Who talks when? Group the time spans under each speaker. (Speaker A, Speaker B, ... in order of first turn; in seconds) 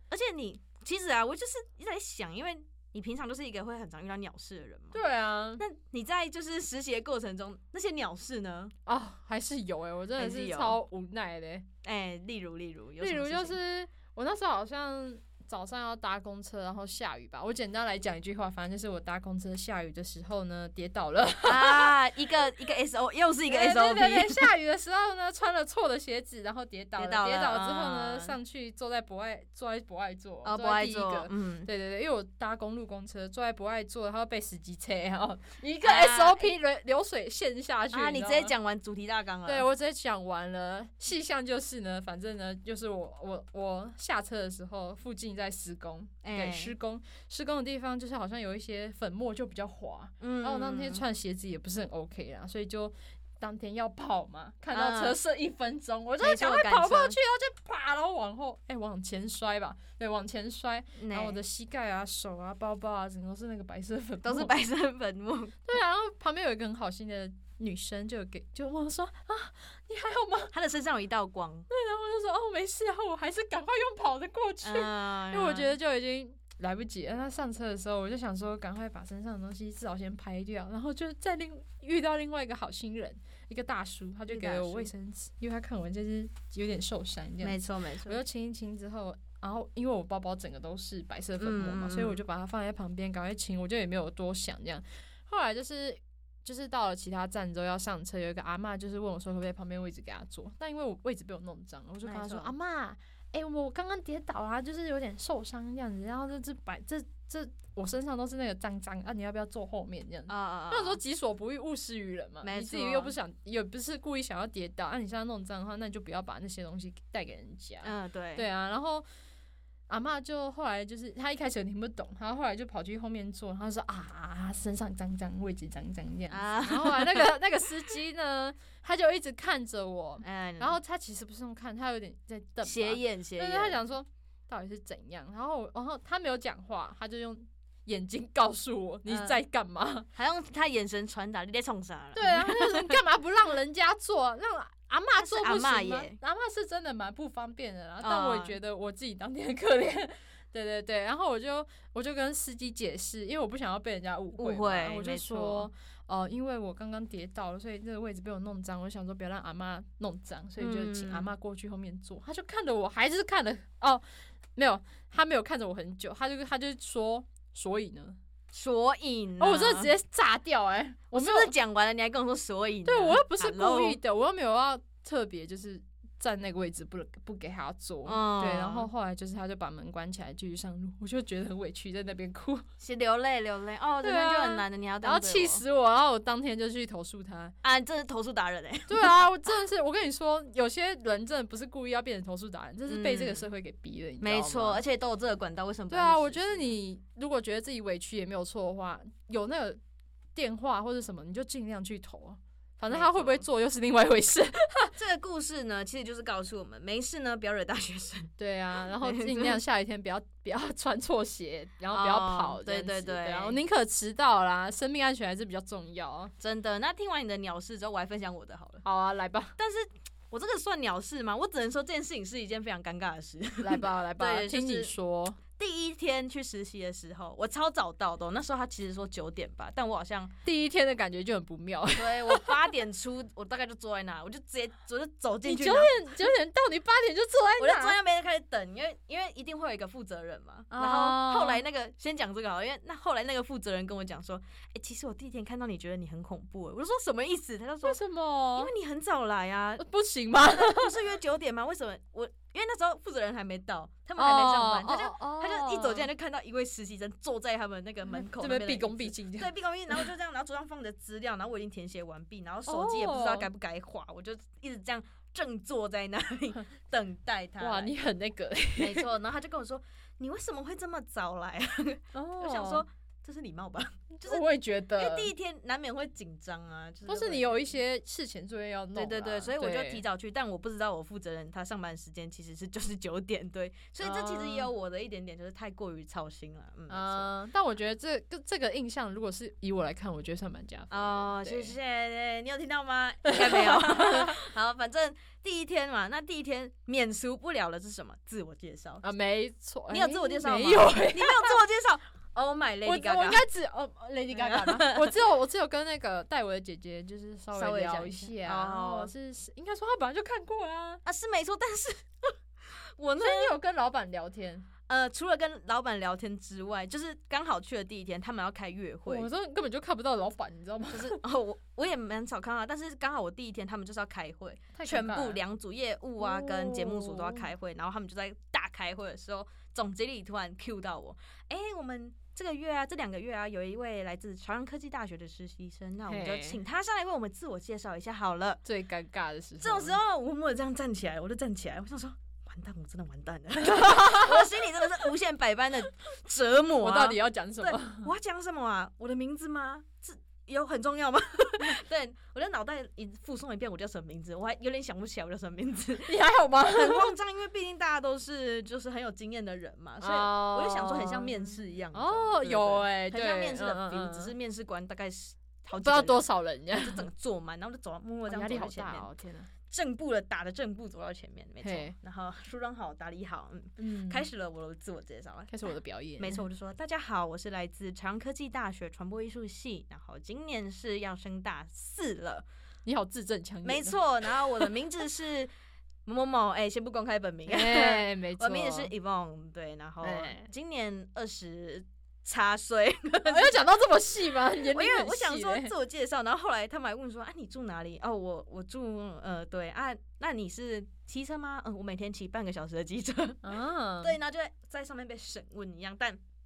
Speaker A: 0.1-5.0, 5.6-8.7, 10.2-10.8, 11.8-13.6, 21.4-24.5, 27.0-28.4, 30.4-31.7, 35.8-36.5, 37.9-39.7, 46.2-46.7, 50.2-51.0, 54.7-55.2, 56.2-57.2, 61.0-61.4, 64.2-65.6, 70.5-71.7, 74.6-75.8, 84.3-84.9, 87.4-88.2, 91.4-92.2, 102.0-102.5, 110.3-111.0, 112.4-113.2, 117.8-118.5, 126.3-127.3, 130.2-130.8, 132.6-133.8, 139.1-139.4, 140.2-143.0, 145.2-146.2, 148.0-148.6, 154.4-155.7, 160.6-161.3, 168.5-169.9, 171.1-174.0, 178.1-178.9, 182.8-185.6, 187.6-189.1, 192.9-193.5, 194.2-196.7, 202.9-203.4, 205.0-209.6, 211.9-213.6, 216.4-218.8, 219.6-224.9, 225.6-230.3, 232.0-235.9, 237.6-248.0, 248.6-267.9, 268.8-274.4, 275.0-277.6, 278.9-287.3, 290.9-299.0, 299.9-303.4, 304.3-305.2, 307.5-309.1, 311.1-313.6, 314.9-319.3, 320.9-338.6, 339.6-356.1, 356.7-369.1, 369.7-375.6, 376.2-382.4, 383.6-385.5, 386.1-393.6, 394.5-403.4, 404.0-406.2
Speaker B: 4.9-5.6, 8.9-11.7, 13.0-22.0, 23.5-38.5, 39.5-64.5, 65.7-70.6, 71.7-119.0, 119.9-140.1, 142.2-164.0, 164.6-168.2, 169.4-171.5, 172.8-182.7, 184.0-187.5, 188.9-194.8, 195.9-199.8, 200.3-205.0, 208.4-216.3, 218.8-219.6, 223.6-225.4, 230.4-232.6, 235.4-238.0, 240.7-241.6, 247.8-248.7, 249.8-251.1, 254.2-256.1, 258.1-260.1, 262.7-263.5, 267.6-269.1, 272.1-272.8, 274.2-275.3, 277.1-280.0, 284.0-284.7, 286.9-291.8, 293.2-294.4, 299.0-301.6, 302.9-311.0, 313.2-314.7, 319.1-321.2, 324.7-325.4, 326.2-327.5, 336.1-336.6, 338.6-340.0, 343.7-344.5, 346.8-348.1, 356.1-357.1, 360.0-361.3, 361.9-364.3, 365.7-367.1, 368.3-369.5, 371.6-372.0, 373.8-374.3, 375.5-376.4, 382.9-384.7, 387.5-388.9, 390.0-390.5, 393.2-395.7, 403.4-404.2